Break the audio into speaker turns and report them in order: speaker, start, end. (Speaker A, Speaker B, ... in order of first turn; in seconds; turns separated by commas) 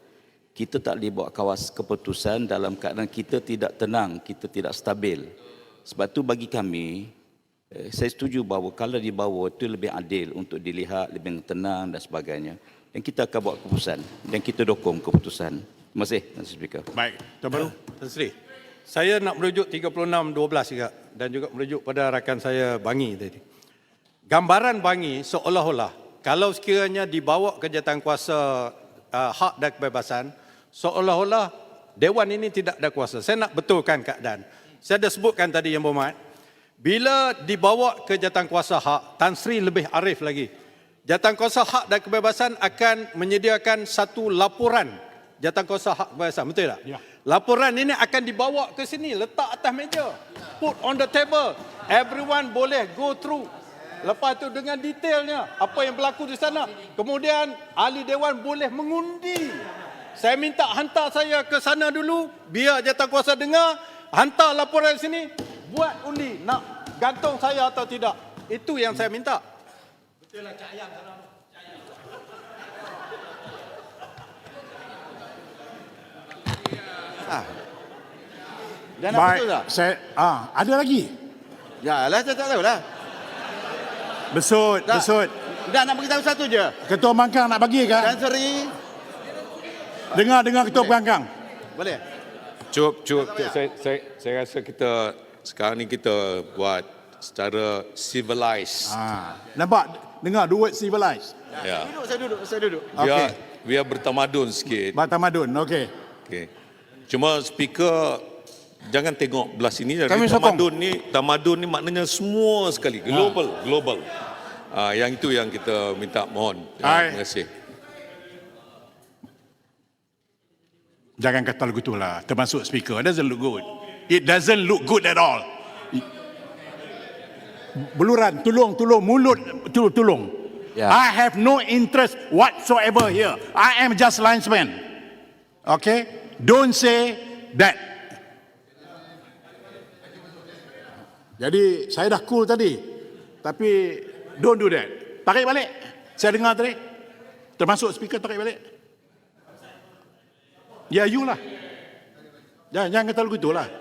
Speaker A: 0.6-5.3, Speaker A: 5.9-7.1, Speaker A: 7.8-16.9, Speaker B: 17.0-17.7, Speaker C: 17.5-18.3, Speaker C: 18.9-23.4, Speaker C: 24.3-36.1, Speaker C: 36.8-40.5, Speaker C: 41.1-53.5, Speaker C: 54.0-59.6, Speaker C: 60.2-69.4, Speaker D: 79.0-79.7, Speaker B: 79.1-81.1, Speaker D: 81.8-82.8, Speaker B: 84.3-85.3, Speaker D: 85.6-86.8, Speaker B: 86.8-88.2, Speaker D: 88.0-88.7, Speaker B: 90.1-91.3, Speaker D: 90.7-91.0, Speaker D: 91.8-92.0, Speaker E: 92.7-99.0, Speaker D: 93.2-93.5, Speaker B: 98.9-101.3, Speaker D: 101.6-103.0, Speaker E: 101.6-101.9, Speaker E: 103.0-105.0, Speaker B: 103.0-103.3, Speaker B: 104.9-105.9, Speaker E: 107.1-108.2, Speaker E: 108.9-114.1, Speaker B: 110.1-110.4, Speaker E: 114.7-117.5, Speaker B: 116.8-117.2, Speaker B: 121.2-126.0, Speaker B: 127.9-134.8, Speaker B: 135.7-137.8, Speaker B: 141.4-142.8, Speaker B: 143.4-146.8, Speaker B: 147.6-148.6, Speaker B: 150.9-151.4, Speaker B: 152.7-153.7